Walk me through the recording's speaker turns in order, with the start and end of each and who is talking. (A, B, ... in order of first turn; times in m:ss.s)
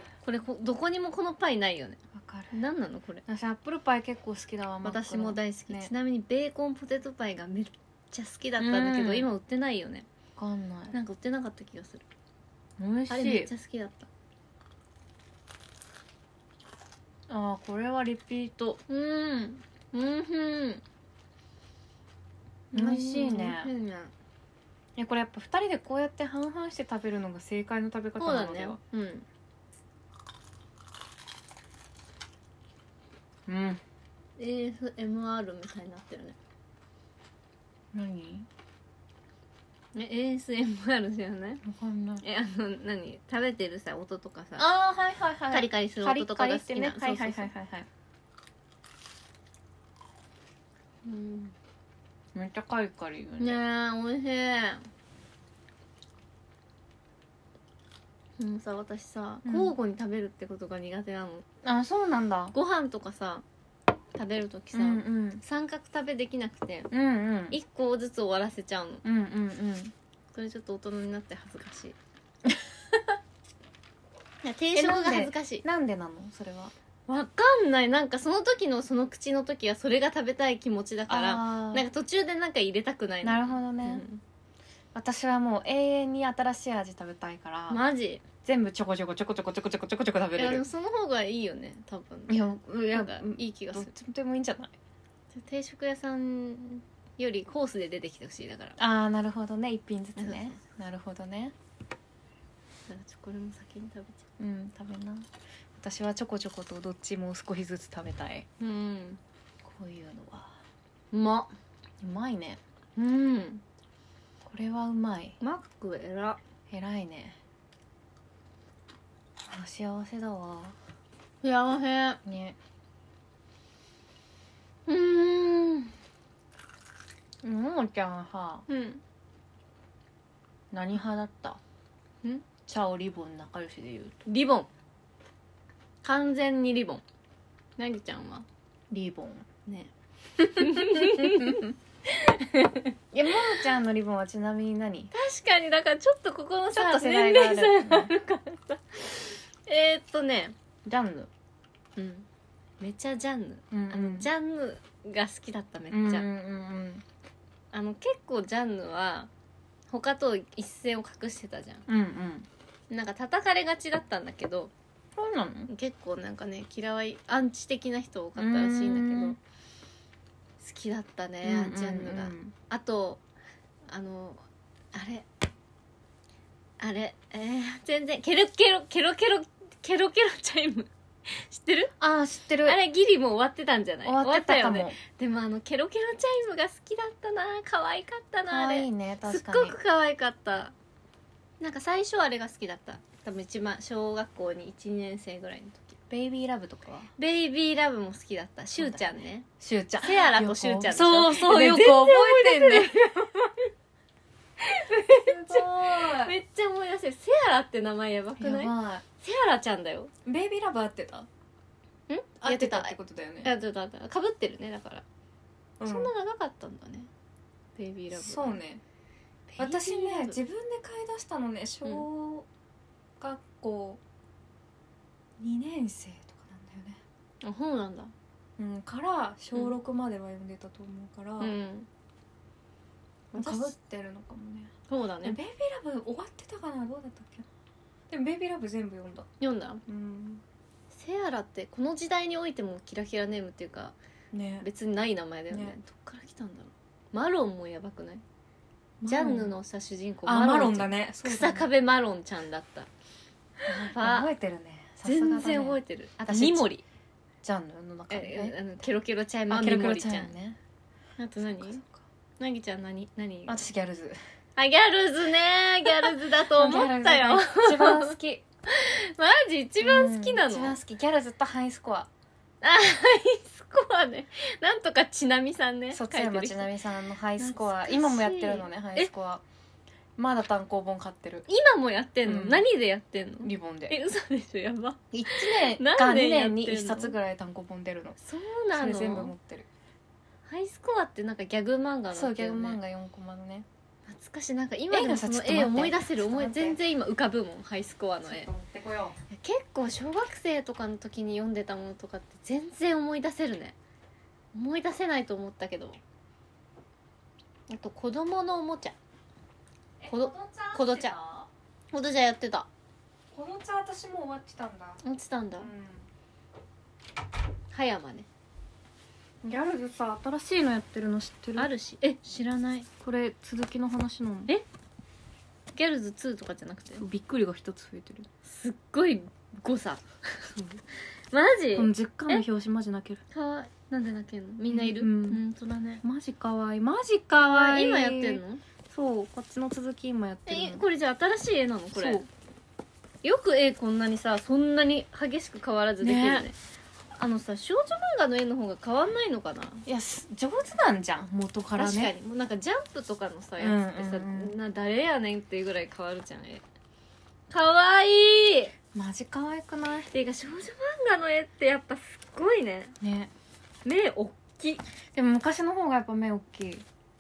0:00.2-0:03.2 A
0:02.1-0:02.6 B
0:03.3-0:05.9 B
0:04.8-0:10.1 A
0:08.6-0:09.3 B
0:10.4-0:11.0 B
0:10.9-0:12.1 A
0:12.8-0:13.5 B
0:13.1-0:14.1 A
0:17.3-0:18.8 B
0:18.9-0:20.8 A
0:22.7-0:23.7 B
0:22.7-0:24.1 A
0:25.0-0:28.8 B
0:28.2-0:29.3 A
0:33.5-0:33.8 B
0:34.4-0:36.4 A
0:37.9-0:38.5 B
0:40.0-0:41.6 A
0:41.6-0:42.2 B
0:42.2-0:44.7 A
0:44.6-0:47.9 B
0:45.5-0:47.5 A
0:51.0-0:51.5 A
0:52.4-0:53.6 B
0:53.4-0:54.9 A
0:58.4-1:01.4 A
0:59.5-0:59.7 B
1:01.6-1:02.6 B
1:02.5-1:03.4 A
1:04.2-1:06.9 A
1:04.7-1:05.4 B
1:06.9-1:07.6 B
1:07.5-1:09.0 A
1:09.0-1:09.9 B
1:10.3-1:12.0 A
1:12.5-1:13.1 B
1:14.4-1:15.6 A
1:14.8-1:16.7 B
1:17.1-1:24.2 A
1:21.1-1:21.9 B
1:23.2-1:24.0 B
1:25.0-1:27.8 B
1:27.7-1:28.2 A
1:28.4-1:30.6 B
1:30.4-1:33.9 A
1:32.3-1:34.8 B
1:35.3-1:38.8 A
1:38.8-1:41.5 B
1:40.2-1:40.6 A
1:42.9-1:44.2 A
1:44.4-1:48.5 B
1:48.6-1:49.2 A
1:49.6-1:50.5 B
1:51.1-1:51.5 A
1:52.0-1:52.6 B
1:53.0-1:53.6 A
1:54.4-1:55.4 B
1:55.4-1:56.4 A
1:56.7-1:57.4 B
1:59.5-2:00.8 B
2:01.4-2:02.2 A
2:02.2-2:02.6 B
2:04.9-2:05.9 A
2:07.4-2:08.6 B
2:08.7-2:09.0 A
2:10.7-2:11.6 B
2:12.6-2:14.3 B
2:14.3-2:14.7 A
2:16.0-2:17.0 A
2:17.8-2:18.5 A
2:18.9-2:19.5 B
2:19.7-2:23.5 A
2:20.4-2:21.7 B
2:23.1-2:25.1 B
2:25.1-2:30.6 A
2:26.7-2:28.1 B
2:30.8-2:31.3 B
2:32.0-2:32.3 A
2:32.8-2:36.3 A
2:33.7-2:34.3 B
2:35.9-2:37.0 B
2:37.7-2:39.3 A
2:39.9-2:41.8 A
2:41.9-2:42.5 B
2:42.9-2:44.7 A
2:45.2-2:45.7 B
2:45.7-2:49.4 A
2:48.4-2:49.4 B
2:50.6-2:53.2 A
2:51.4-2:52.5 B
2:53.9-2:54.4 A
2:54.9-2:55.3 A
2:56.8-3:01.9 A
3:02.0-3:02.8 B
3:02.6-3:10.7 A
3:04.0-3:05.0 B
3:08.5-3:09.8 B
3:11.6-3:16.0 A
3:16.1-3:17.1 B
3:17.2-3:19.5 A
3:18.8-3:19.0 B
3:19.6-3:23.5 B
3:20.0-3:23.3 A
3:24.6-3:30.1 A
3:24.9-3:26.4 B
3:28.4-3:29.0 B
3:30.3-3:31.3 B
3:32.1-3:35.0 A
3:32.4-3:33.5 B
3:35.8-3:36.1 B
3:35.8-3:37.1 A
3:37.8-3:38.6 A
3:38.1-3:38.8 B
3:39.5-3:40.4 A
3:39.6-3:42.5 B
3:43.2-3:44.0 B
3:45.4-3:47.0 B
3:47.4-3:48.1 A
3:48.6-3:51.6 B
3:51.4-3:51.9 A
3:53.3-3:53.7 A
3:53.4-3:54.7 B
3:54.9-3:55.4 A
3:55.2-3:57.5 B
3:58.1-3:59.3 B
3:59.4-3:59.8 A
3:59.9-4:00.4 B
4:00.9-4:04.0 A
4:04.3-4:04.7 B
4:04.6-4:08.2 A
4:05.5-4:05.8 B
4:09.0-4:09.6 B
4:09.1-4:12.9 A
4:10.3-4:11.7 B
4:13.6-4:16.7 B
4:13.7-4:14.3 A
4:15.0-4:16.8 A
4:17.4-4:18.6 B
4:18.1-4:20.3 A
4:19.5-4:20.6 B
4:21.2-4:21.8 A
4:21.4-4:22.0 B
4:22.4-4:23.6 A
4:23.5-4:24.2 B
4:24.6-4:28.2 A
4:26.0-4:28.4 B
4:28.7-4:30.8 A
4:29.8-4:32.1 B
4:32.6-4:36.8 A
4:35.9-4:39.4 B
4:37.4-4:39.1 A
4:40.2-4:41.5 B
4:41.5-4:47.2 A
4:42.3-4:42.7 B
4:43.4-4:44.0 B
4:45.1-4:48.2 B
4:48.2-4:49.3 A
4:48.7-4:49.7 B
4:50.5-4:52.8 A
4:52.1-4:53.7 B
4:54.1-4:58.5 A
4:54.9-4:56.8 B
4:58.2-4:59.2 B
4:59.3-5:03.8 A
5:04.5-5:06.0 A
5:07.7-5:09.0 A
5:10.0-5:11.5 B
5:10.1-5:11.2 A
5:11.9-5:12.7 A
5:13.3-5:15.0 B
5:15.0-5:15.7 A
5:15.6-5:16.1 B
5:17.7-5:18.3 A
5:19.4-5:21.7 B
5:21.6-5:22.9 A
5:23.0-5:24.5 B
5:25.8-5:27.0 A
5:27.0-5:28.3 B
5:28.4-5:30.6 A
5:31.3-5:32.4 A
5:31.8-5:33.2 B
5:33.3-5:36.0 A
5:34.7-5:35.4 B
5:36.0-5:40.8 B
5:37.4-5:38.6 A
5:40.5-5:42.2 A
5:42.0-5:42.3 B
5:43.2-5:46.6 A
5:46.0-5:46.5 B
5:47.2-5:49.9 A
5:49.9-5:52.1 B
5:51.8-5:56.6 A
5:53.6-5:54.6 B
5:57.5-5:58.7 A
5:58.9-6:00.1 B
6:00.1-6:03.0 A
6:03.0-6:03.3 B
6:03.8-6:04.8 A
6:05.1-6:06.8 B